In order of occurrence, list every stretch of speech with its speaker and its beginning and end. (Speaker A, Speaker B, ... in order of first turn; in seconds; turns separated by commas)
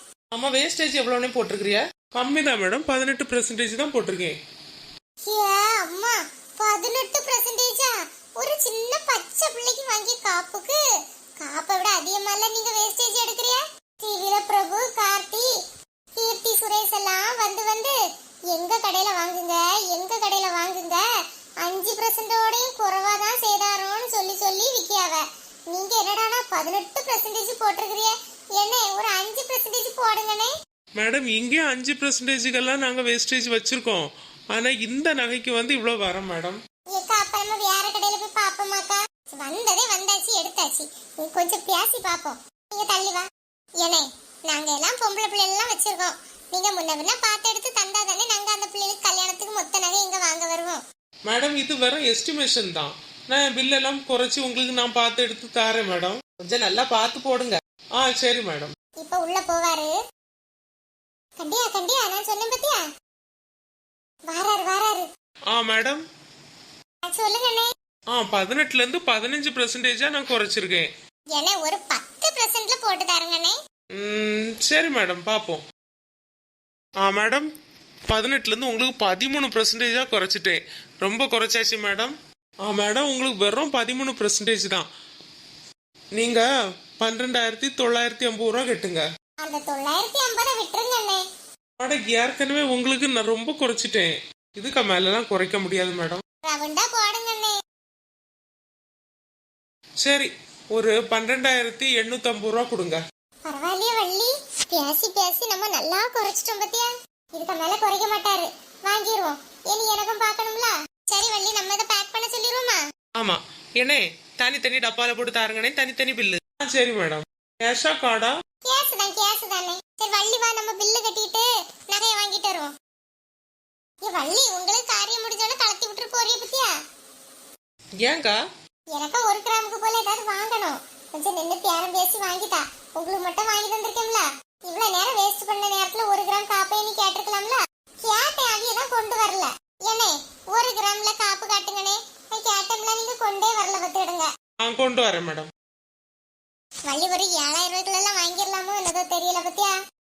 Speaker A: 0.3-4.3, Speaker B: 5.2-10.8, Speaker B: 11.4-15.5, Speaker B: 16.2-18.0, Speaker B: 18.5-21.0, Speaker B: 21.6-30.5, Speaker A: 31.0-36.6, Speaker B: 36.9-43.2, Speaker B: 43.8-50.8, Speaker A: 51.3-58.7, Speaker B: 59.0-59.9, Speaker B: 61.4-62.8, Speaker B: 64.3-65.1, Speaker A: 65.5-66.0, Speaker B: 67.1-67.7, Speaker A: 68.1-70.9, Speaker B: 71.3-73.5, Speaker A: 74.0-75.6, Speaker A: 77.0-77.5, Speaker A: 78.1-84.9, Speaker A: 86.2-86.4, Speaker A: 87.0-89.0, Speaker B: 89.4-91.2, Speaker A: 91.8-96.2, Speaker B: 96.4-97.5, Speaker A: 100.0-103.0, Speaker B: 103.5-112.8, Speaker A: 113.2-118.3, Speaker B: 118.7-122.7, Speaker B: 124.1-126.7, Speaker A: 128.0-128.4, Speaker B: 128.9-144.3, Speaker A: 144.6-145.5, Speaker B: 146.9-149.7